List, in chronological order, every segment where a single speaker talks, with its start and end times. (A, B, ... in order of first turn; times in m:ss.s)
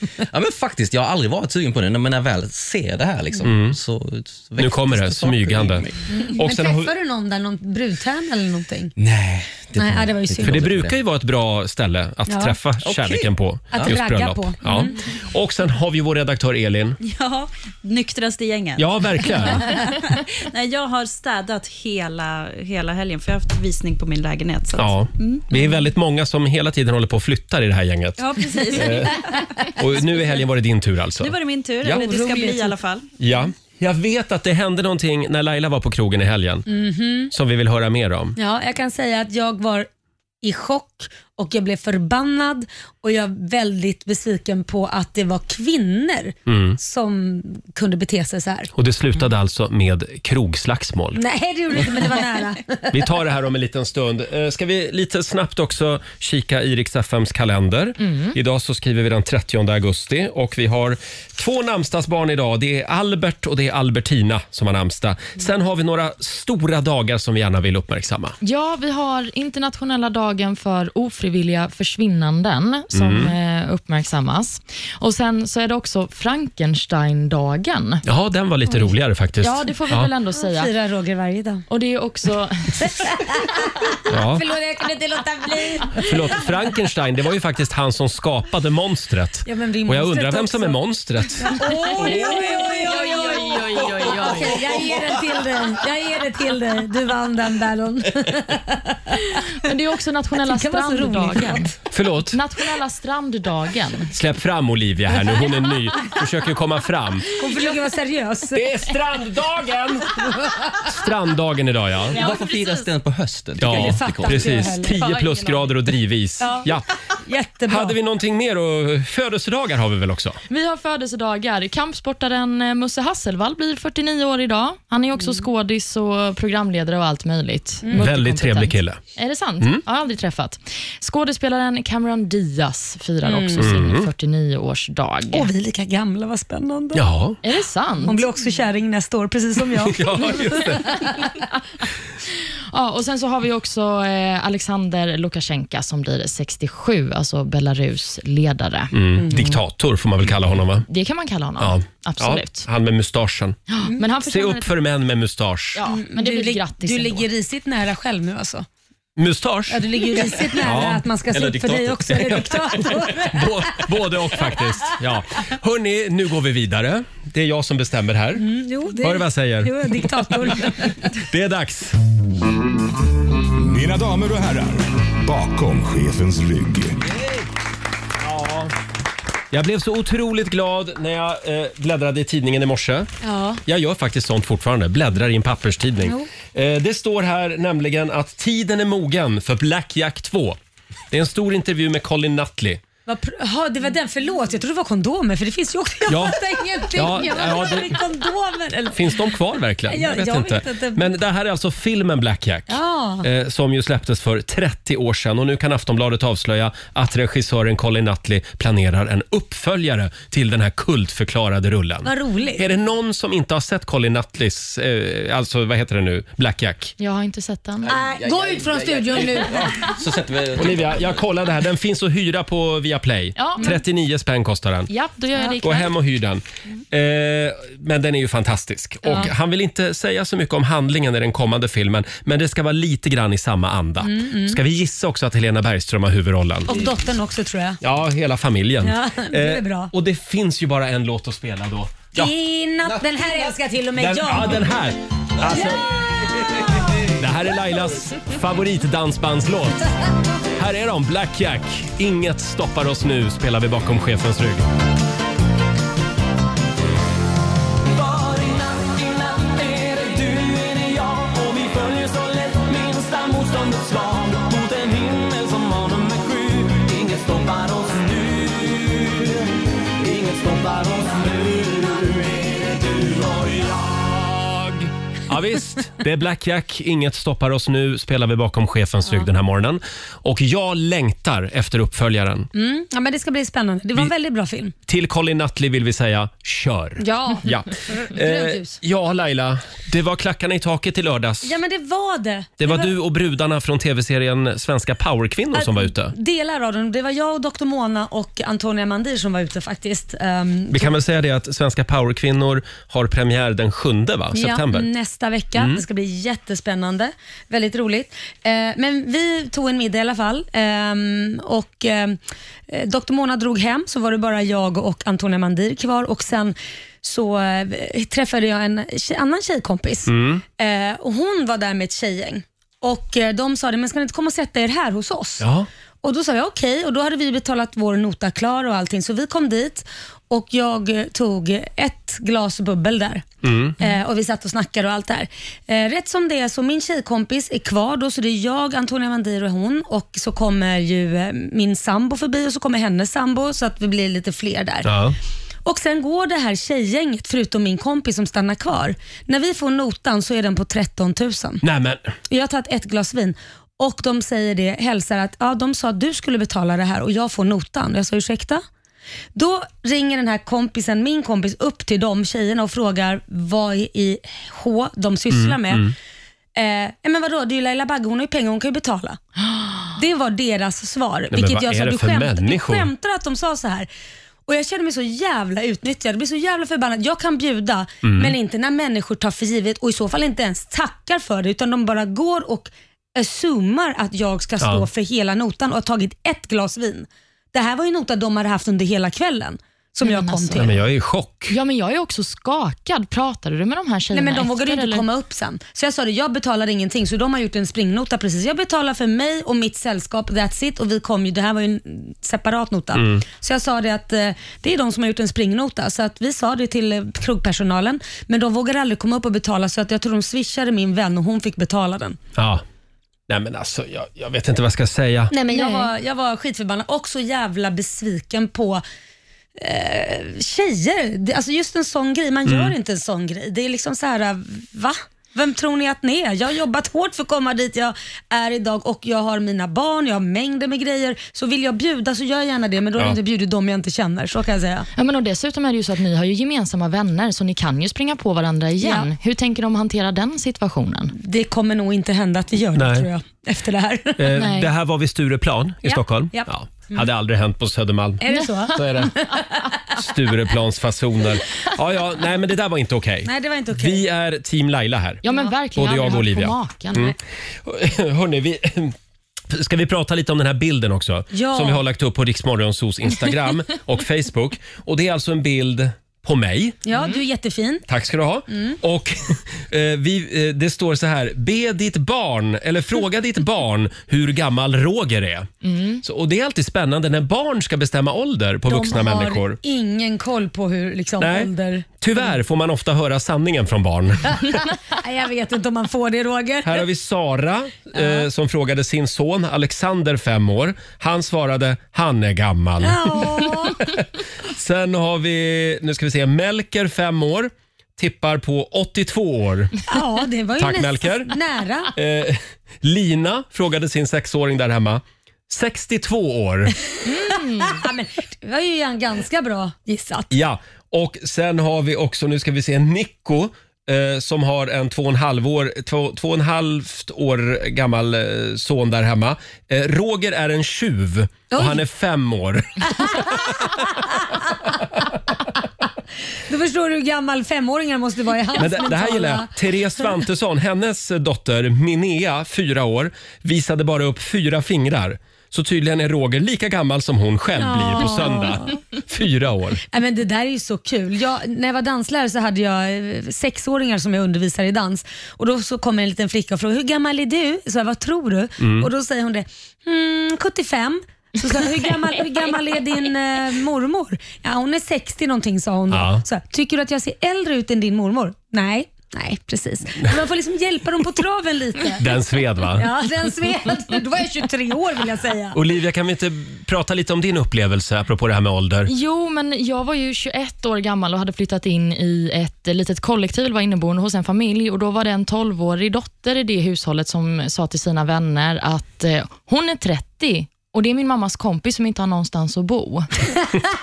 0:00.3-0:06.0 A
0:03.4-0:03.8 B
0:04.6-0:05.8 B
0:06.1-0:08.9 C
0:06.4-0:06.9 B
0:09.0-0:11.0 A
0:09.8-0:10.7 C
0:10.4-0:17.0 B
0:12.3-0:12.6 C
0:12.8-0:14.0 A
0:13.7-0:14.9 C
0:17.0-0:25.6 D
0:18.8-0:19.8 B
0:24.7-0:29.2 B
0:28.2-0:29.7 D
0:29.8-0:32.0 B
0:31.2-0:33.1 D
0:31.9-0:32.8 C
0:33.2-0:36.7 B
0:36.7-0:37.3 C
0:37.3-0:38.4 B
0:38.4-0:39.9 C
0:40.4-0:48.7 C
0:46.5-0:46.8 B
0:48.8-0:51.2 B
0:51.2-0:53.1 C
0:52.9-1:08.4 B
0:58.0-0:58.4 E
1:08.4-1:18.0 E
1:12.9-1:13.3 B
1:18.1-1:20.1 B
1:19.4-1:20.7 E
1:20.4-1:21.6 C
1:21.7-1:22.9 E
1:22.8-1:26.4 C
1:24.1-1:24.5 B
1:26.0-1:32.5 B
1:29.5-1:30.8 C
1:31.4-1:39.4 C
1:32.0-1:34.9 E
1:39.6-1:41.7 E
1:40.4-1:41.8 C
1:41.9-1:42.4 B
1:42.3-1:44.1 E
1:44.1-1:47.3 B
1:47.4-1:48.8 C
1:48.5-1:52.2 B
1:50.3-1:50.8 C
1:52.1-1:54.7 A
1:53.6-1:56.9 B
1:53.6-1:55.8 C
1:56.4-1:56.7 C
1:57.2-1:58.0 C
1:57.7-2:00.4 B
2:00.5-2:15.5 E
2:08.0-2:09.0 B
2:13.2-2:13.7 C
2:13.6-2:14.1 B
2:15.3-2:17.0 C
2:16.9-2:17.4 B
2:17.4-2:18.2 E
2:18.1-2:21.1 C
2:19.8-2:21.0 B
2:22.7-2:28.9 E
2:28.9-2:30.9 B
2:29.2-2:29.6 C
2:30.9-2:32.7 E
2:31.6-2:33.6 B
2:33.7-2:34.7 E
2:34.2-2:35.8 B
2:35.8-2:37.3 E
2:35.9-2:38.7 C
2:39.2-2:48.5 B
2:39.7-2:44.6 C
2:41.5-2:41.9 A
2:48.4-2:50.9 C
2:49.0-2:50.1 B
2:51.3-2:52.0 B
2:53.7-2:56.9 F
2:58.2-2:58.7 B
2:59.5-3:03.1 B
3:03.2-3:03.6 C
3:03.7-3:10.6 B
3:11.1-3:12.8 B
3:13.1-3:19.2 C
3:16.1-3:16.4 B
3:16.9-3:18.0 B
3:18.9-3:37.0 B
3:19.9-3:21.1 C
3:22.7-3:23.3 C
3:32.0-3:32.7 C
3:37.0-3:37.9 E
3:37.8-3:41.2 A
3:37.9-3:39.9 C
3:40.6-3:44.9 B
3:43.4-3:43.8 E
3:44.9-3:45.9 E
3:45.6-3:56.7 B
3:49.0-3:49.3 C
3:54.0-3:54.6 C
3:56.7-3:57.8 C
3:57.8-4:02.3 B
3:58.8-3:59.9 C
4:02.2-4:04.7 C
4:04.0-4:06.1 B
4:05.5-4:05.9 C
4:07.2-4:09.8 B
4:10.6-4:14.7 B
4:33.9-4:42.5 B
4:42.6-4:44.7 C
4:44.9-4:51.6 B
4:47.0-4:48.8 C
4:51.4-4:52.9 C
4:52.6-4:56.1 B
4:55.5-5:00.9 C
5:00.7-5:04.9 B
5:04.3-5:25.5 C
5:05.6-5:05.8 B
5:20.1-5:20.4 B
5:25.4-5:25.7 B
5:26.0-5:33.3 C
5:33.4-5:33.8 B
5:33.8-5:44.9 C
5:44.8-5:45.2 B
5:45.6-5:51.6 C
5:51.6-5:52.1 B
5:52.3-5:58.6 C
5:59.4-6:05.9 C
6:05.3-6:05.9 B
6:06.6-6:09.2 C
6:09.9-6:13.9 C
6:11.3-6:12.9 B
6:14.5-6:30.8 C
6:18.0-6:18.4 B
6:24.6-6:24.9 B
6:30.0-6:30.8 E
6:30.6-6:31.5 B
6:31.5-6:35.0 E
6:34.1-6:52.2 C
6:42.9-6:43.2 B
6:52.4-6:52.6 B
6:53.3-6:55.3 B
6:55.3-6:58.8 C
6:55.5-6:55.9 E
6:59.6-7:14.9 C
7:02.5-7:02.8 B
7:15.0-7:21.1 E
7:18.8-7:19.1 C
7:21.2-7:24.4 C
7:22.8-7:23.1 B
7:24.2-7:28.2 B
7:24.3-7:24.7 E
7:25.9-7:27.1 C
7:28.2-7:29.7 C
7:28.7-7:29.1 B
7:30.0-7:35.2 B
7:33.2-7:34.1 C
7:35.2-7:37.2 E
7:35.8-7:39.0 B
7:39.5-7:46.8 B
7:41.3-7:41.8 C
7:46.9-7:47.8 C
7:47.9-7:55.5 B
7:55.6-7:56.0 E
7:56.0-7:59.6 B
7:58.7-8:02.4 C
8:01.2-8:04.6 B
8:04.4-8:06.8 C
8:06.6-8:14.0 B
8:08.0-8:08.2 C
8:12.8-8:13.8 C
8:14.5-8:19.7 B
8:19.9-8:21.9 C
8:20.6-8:21.3 B
8:22.0-8:26.8 B
8:27.0-8:30.3 C
8:27.3-8:27.7 E
8:30.3-8:43.5 B
8:41.5-8:41.8 C
8:46.5-8:49.5 C
8:48.6-8:59.8 B
8:57.6-8:58.8 C
8:59.9-9:22.2 C
9:08.6-9:08.9 B
9:15.9-9:16.2 B
9:22.0-9:22.9 B
9:22.8-9:25.6 C
9:25.5-9:28.9 B
9:28.9-9:43.2 E